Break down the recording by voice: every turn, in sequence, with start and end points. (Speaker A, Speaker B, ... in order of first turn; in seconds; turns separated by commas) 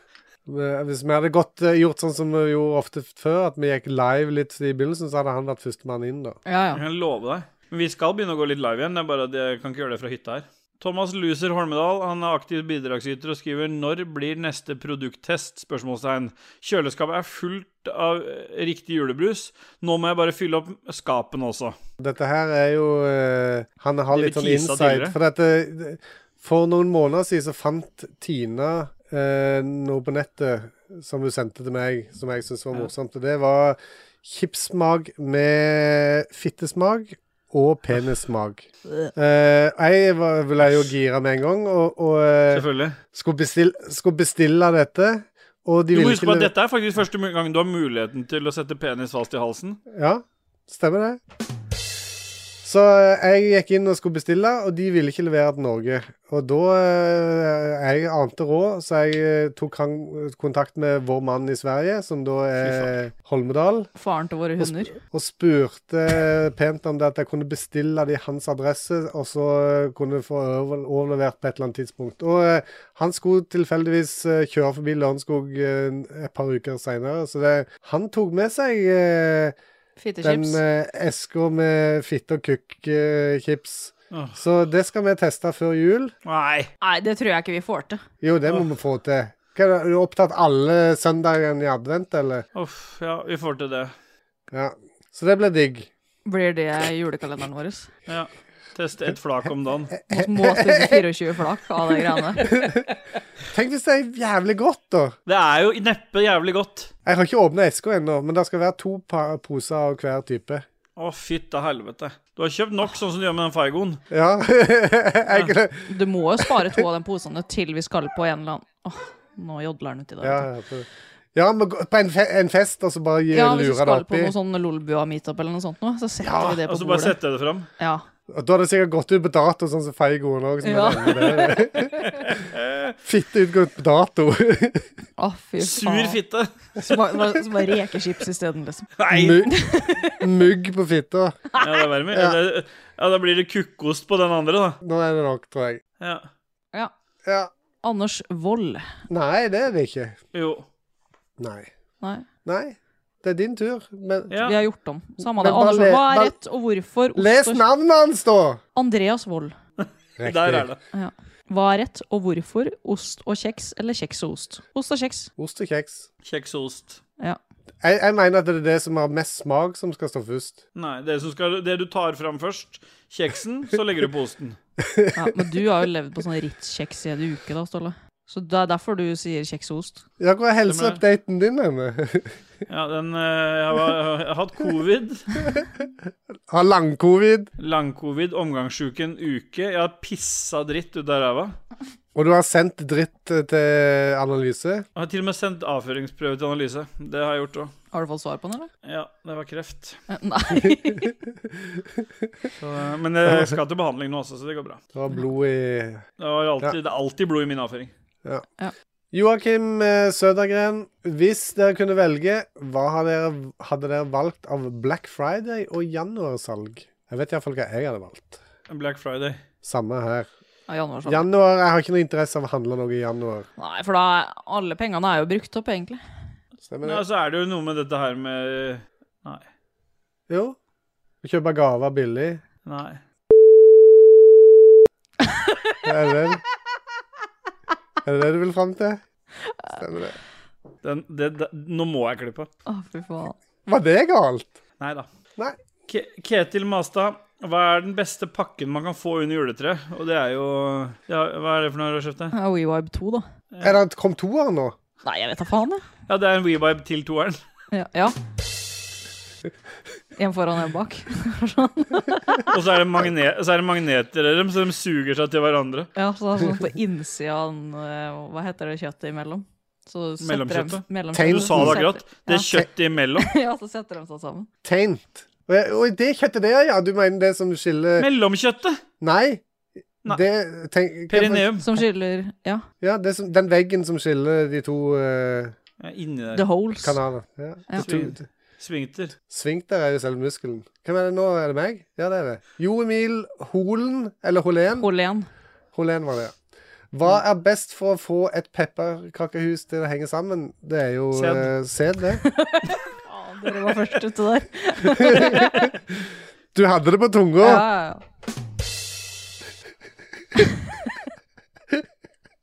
Speaker A: 0.5-6.4, Speaker B: 6.5-6.8, Speaker C: 6.7-21.8, Speaker A: 22.0-46.5, Speaker C: 24.1-25.1, Speaker C: 42.5-43.0, Speaker C: 45.9-49.8, Speaker A: 49.9-51.2, Speaker A: 52.6-63.9, Speaker C: 62.6-62.9, Speaker B: 64.0-64.9, Speaker A: 64.6-79.5, Speaker B: 80.0-80.6, Speaker A: 80.2-86.1, Speaker C: 84.1-84.4, Speaker C: 86.2-86.7, Speaker B: 86.8-88.0, Speaker A: 88.2-92.5, Speaker C: 92.5-93.9, Speaker A: 94.5-95.9, Speaker B: 96.2-97.9, Speaker C: 98.1-99.9, Speaker A: 100.0-101.0, Speaker B: 100.1-102.5, Speaker A: 102.4-102.8, Speaker A: 103.5-105.2, Speaker C: 105.2-106.9, Speaker A: 107.0-110.6, Speaker C: 111.0-114.0, Speaker A: 114.1-115.9, Speaker B: 115.9-120.5, Speaker A: 116.4-116.8, Speaker A: 120.2-124.3, Speaker B: 123.3-127.2, Speaker A: 126.2-126.6, Speaker C: 126.4-127.7, Speaker B: 127.8-128.1, Speaker A: 128.3-131.9, Speaker B: 130.6-131.7, Speaker C: 132.0-132.9, Speaker A: 133.0-134.9, Speaker B: 135.2-136.2, Speaker C: 135.6-137.0, Speaker B: 136.8-140.3, Speaker C: 139.0-139.4, Speaker A: 139.1-141.4, Speaker C: 141.6-144.8, Speaker A: 142.1-142.4, Speaker A: 144.8-145.8, Speaker C: 146.0-146.2, Speaker A: 147.2-147.5, Speaker B: 147.8-148.9, Speaker A: 149.1-150.2, Speaker C: 150.3-150.7, Speaker A: 151.4-151.7, Speaker B: 152.0-152.3, Speaker A: 152.4-154.3, Speaker C: 154.3-154.6, Speaker B: 154.4-157.6, Speaker A: 155.2-156.3, Speaker A: 157.1-158.6, Speaker B: 158.8-159.5, Speaker C: 159.8-160.8, Speaker A: 160.2-160.7, Speaker B: 160.9-165.3, Speaker A: 165.4-166.1, Speaker C: 166.2-167.0, Speaker A: 167.8-170.6, Speaker C: 170.7-174.6, Speaker A: 174.8-175.5, Speaker B: 175.1-180.0, Speaker A: 180.2-182.3, Speaker C: 180.7-181.0, Speaker C: 182.7-185.2, Speaker A: 186.5-187.5, Speaker C: 187.6-191.6, Speaker A: 192.1-194.8, Speaker C: 194.9-197.7, Speaker B: 197.9-198.7, Speaker C: 198.8-200.0, Speaker B: 200.1-201.1, Speaker A: 201.5-202.3, Speaker C: 202.6-204.8, Speaker A: 203.2-203.6, Speaker A: 204.9-206.1, Speaker C: 206.2-207.9, Speaker A: 209.1-218.4, Speaker C: 218.7-219.4, Speaker A: 219.6-220.3, Speaker B: 220.7-221.2, Speaker A: 221.0-223.5, Speaker B: 223.6-226.0, Speaker A: 226.7-227.0, Speaker C: 226.8-229.4, Speaker A: 230.3-230.6, Speaker A: 231.2-232.4, Speaker C: 232.7-233.0, Speaker B: 235.2-235.6, Speaker A: 235.8-236.4, Speaker A: 238.0-239.0, Speaker A: 239.7-240.2, Speaker C: 240.8-242.5, Speaker B: 242.7-243.4, Speaker A: 243.7-244.5, Speaker C: 244.8-245.1, Speaker C: 245.9-252.3, Speaker B: 252.3-253.2, Speaker C: 253.5-253.8, Speaker A: 253.6-254.8, Speaker B: 255.0-255.8, Speaker C: 256.1-257.4, Speaker B: 257.7-258.1, Speaker B: 260.2-262.5, Speaker C: 262.5-265.9, Speaker B: 265.9-272.6, Speaker C: 270.2-273.3, Speaker A: 271.1-271.8, Speaker B: 273.2-274.5, Speaker A: 274.6-278.1, Speaker C: 278.0-278.8, Speaker A: 279.0-279.4, Speaker A: 280.0-281.5, Speaker C: 281.1-281.6, Speaker B: 281.6-282.6, Speaker A: 282.8-285.5, Speaker C: 285.8-286.4, Speaker B: 286.3-287.0, Speaker A: 286.8-288.2, Speaker C: 287.8-289.1, Speaker A: 289.3-294.9, Speaker B: 294.8-295.3, Speaker A: 295.7-296.4, Speaker A: 296.9-302.2, Speaker C: 301.1-301.5, Speaker B: 302.2-305.7, Speaker A: 305.0-305.4, Speaker C: 305.3-305.6, Speaker A: 306.5-307.6, Speaker B: 307.4-308.0